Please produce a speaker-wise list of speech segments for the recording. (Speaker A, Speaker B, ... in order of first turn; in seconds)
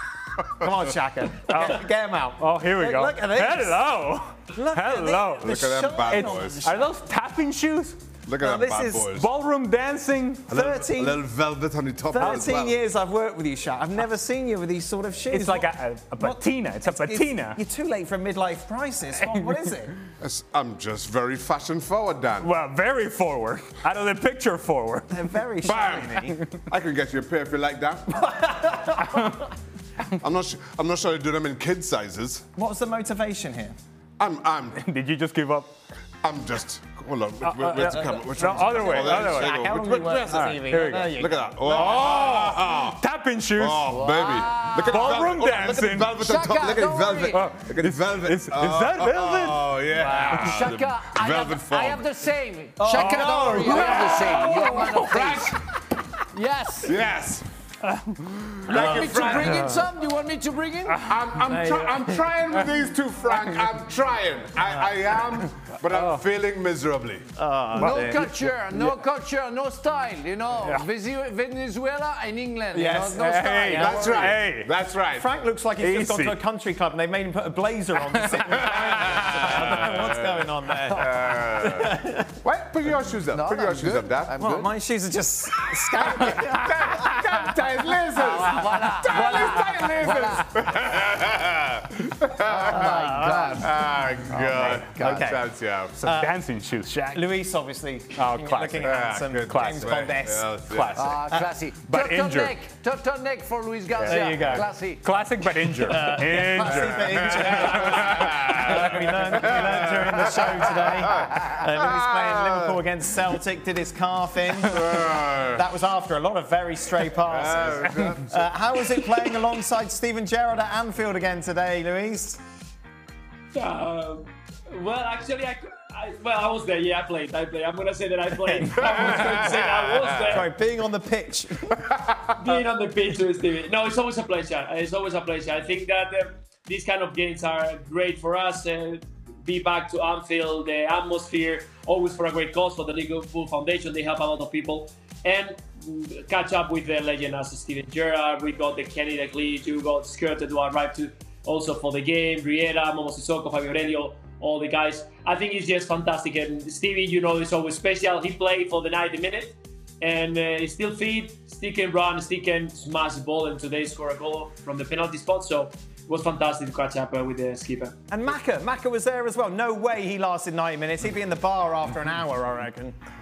Speaker A: 0.4-3.9, 4.5-6.9, 8.4-9.1, 10.5-11.3, 12.1-19.9, 25.1-26.4, 28.1-29.5, 32.5-33.8, 37.9-42.4, 49.9-50.4, 52.8-54.7, 58.7-59.6, 61.5-62.3, 64.6-65.1, 67.3-69.0, 72.7-74.4, 75.1-82.4, 84.4-87.5, 92.7-93.7, 94.6-96.3, 97.1-101.5, 104.0-104.7, 105.8-122.4, 128.4-129.4, 130.2-131.8, 168.1-173.0
Speaker B: 1.5-1.9, 2.4-8.0, 9.1-10.5, 12.2-12.6, 15.3-17.6, 19.2-19.5, 22.4-25.1, 26.2-26.4, 29.1-29.5, 34.7-35.7, 37.4-39.6, 40.1-43.9, 44.8-46.2, 47.3-50.6, 52.9-53.9, 57.8-58.1, 60.9-61.5, 65.8-66.2, 67.8-68.1, 70.6-70.8, 73.1-74.7, 75.8-76.4, 96.0-97.2, 98.2-98.9, 99.5-99.9, 101.8-102.5, 104.0-108.8
Speaker C: 5.4-6.7, 8.3-9.3, 10.5-12.7, 20.2-22.5, 25.6-28.8, 30.1-32.5, 34.2-34.8, 36.2-40.4, 41.0-52.0, 53.0-55.6, 56.8-57.5, 58.2-59.8, 61.0-67.3, 73.7-75.3, 78.5-84.4, 85.9-93.0, 93.5-96.0, 98.8-101.0, 107.1-112.8, 114.6-115.6, 117.2-118.5, 128.9-130.0, 131.9-132.3
Speaker D: 43.9-45.6, 46.1-47.5, 50.0-55.6, 56.3-57.0, 58.7-61.0, 67.8-74.2, 83.3-84.7, 88.1-90.6, 92.4-95.3, 100.9-105.1
Speaker E: 58.8-59.5, 123.5-130.5, 132.4-167.9